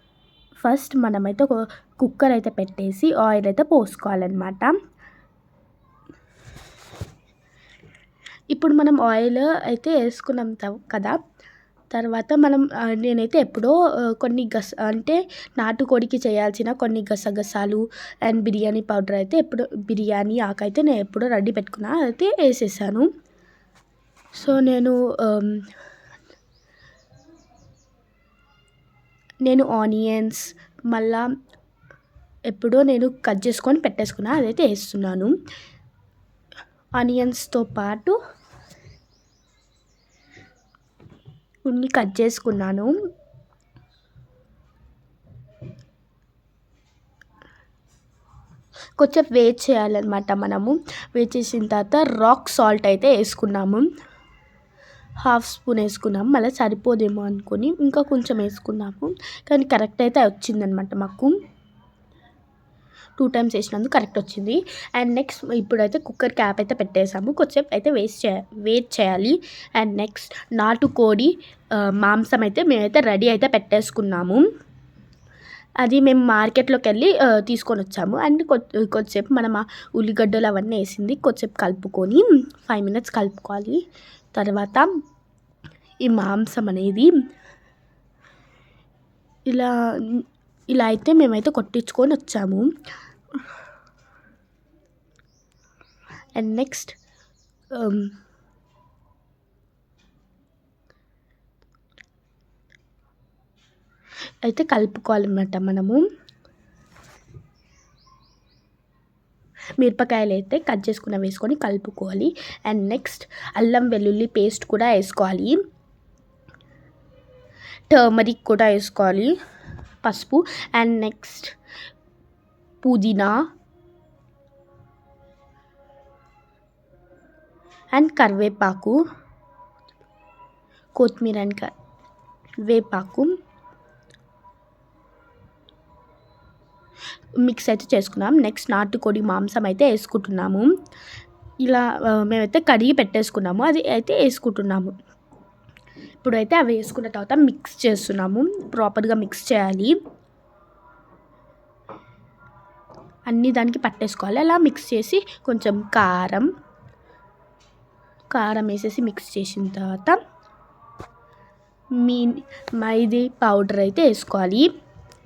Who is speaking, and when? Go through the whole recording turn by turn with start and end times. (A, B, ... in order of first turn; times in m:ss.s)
0:00.6-0:04.7 A
0:08.5-0:11.2 A
0:11.9-0:23.1 A
0:24.4-0:25.6 A
0:29.4-0:31.3 A
0:32.5-0:35.3 A
0:37.0-0:38.2 A
0:41.6-0:42.9 A
0:49.0-0:53.9 A
0:55.2-1:01.3 A
1:03.2-1:14.4 A
1:15.8-1:23.8 A
1:24.3-1:24.9 A
1:26.0-1:27.1 A
1:29.5-1:32.7 A
1:36.4-1:37.0 A
1:37.7-1:38.1 A
1:44.4-1:46.0 A
1:49.8-1:55.6 A
1:57.9-1:59.4 A
2:00.0-2:01.5 A
2:02.8-2:03.5 A
2:07.9-2:09.0 A
2:10.9-2:11.7 A
2:12.6-2:13.3 A
2:17.4-2:20.7 A
2:21.6-2:24.9 A
2:26.2-2:30.0 A
2:33.3-2:36.5 A
2:38.3-2:40.2 A
2:42.0-2:44.7 A